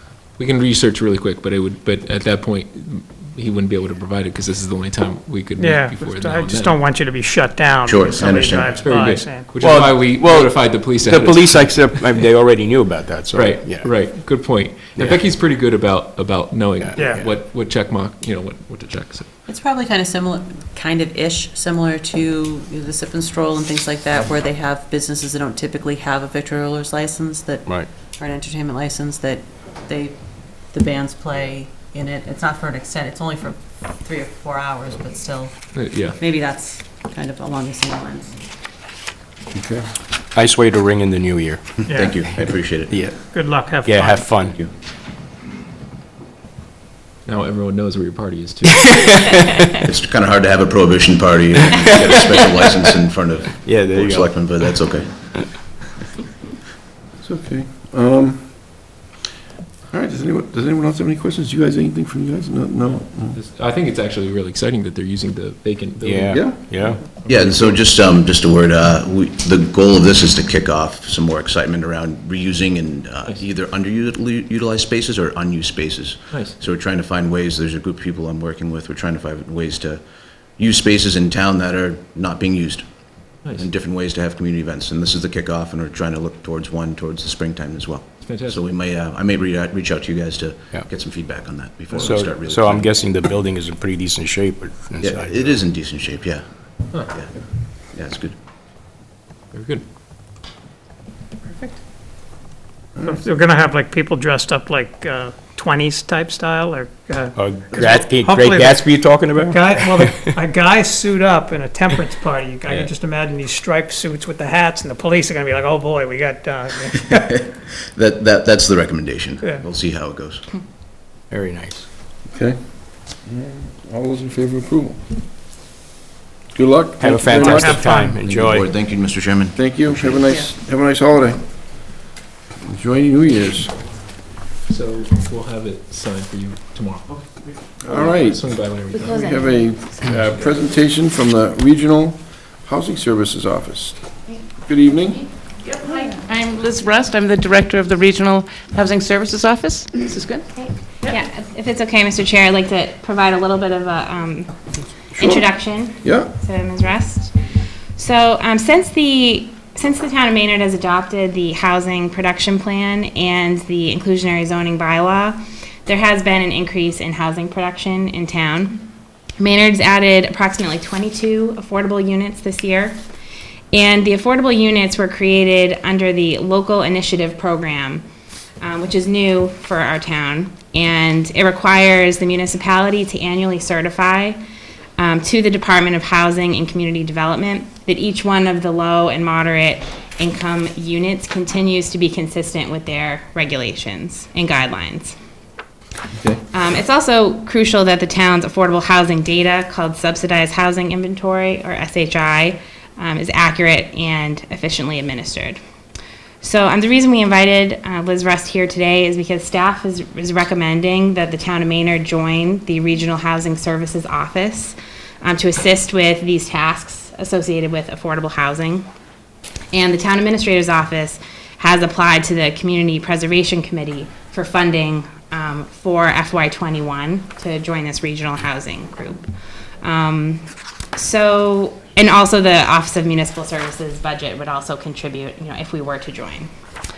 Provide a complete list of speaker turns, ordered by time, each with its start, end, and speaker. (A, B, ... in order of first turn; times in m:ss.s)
0:00.3-0:06.8 A
0:05.6-0:09.5 B
0:07.8-0:09.0 C
0:08.8-0:12.3 A
0:09.6-0:14.2 D
0:13.3-0:19.3 A
0:15.0-0:15.2 D
0:16.8-0:17.3 D
0:17.0-0:17.2 B
0:19.4-0:38.4 E
0:27.6-0:27.9 D
0:35.7-0:36.2 A
0:39.5-0:39.9 F
0:40.3-0:41.6 D
0:41.8-0:43.2 C
0:41.9-0:42.2 B
0:42.7-0:44.6 D
0:43.3-0:44.3 B
0:44.4-0:44.7 C
0:47.2-0:48.8 A
0:48.6-0:49.6 D
0:49.8-0:55.7 C
0:51.6-0:52.4 D
0:53.5-0:54.8 D
0:57.2-0:58.9 F
0:59.9-1:03.4 F
1:03.3-1:07.8 A
1:06.0-1:07.0 D
1:06.3-1:06.6 F
1:07.2-1:32.9 C
1:16.3-1:16.6 A
1:28.2-1:28.6 A
1:31.9-1:35.6 D
1:35.0-1:38.4 C
1:39.5-1:39.8 A
1:43.0-1:57.0 B
1:47.3-1:50.4 D
1:52.6-1:52.9 D
1:57.2-2:00.5 C
2:01.3-2:01.9 D
2:02.3-2:05.0 F
2:06.5-2:07.9 F
2:07.0-2:08.8 D
2:07.5-2:08.2 B
2:08.1-2:09.9 C
2:09.5-2:11.6 F
2:12.6-2:13.8 F
2:14.7-2:17.3 A
2:17.8-2:25.5 F
2:17.8-2:19.2 A
2:18.9-2:20.1 G
2:26.3-2:30.4 H
2:30.5-2:37.3 G
2:35.2-2:36.3 F
2:38.0-2:53.0 G
2:53.7-2:58.0 G
2:58.6-3:04.4 G
3:05.0-3:15.2 G
3:16.5-3:25.6 G
3:26.4-3:38.9 G
3:39.7-3:49.3 G
3:49.8-3:56.5 G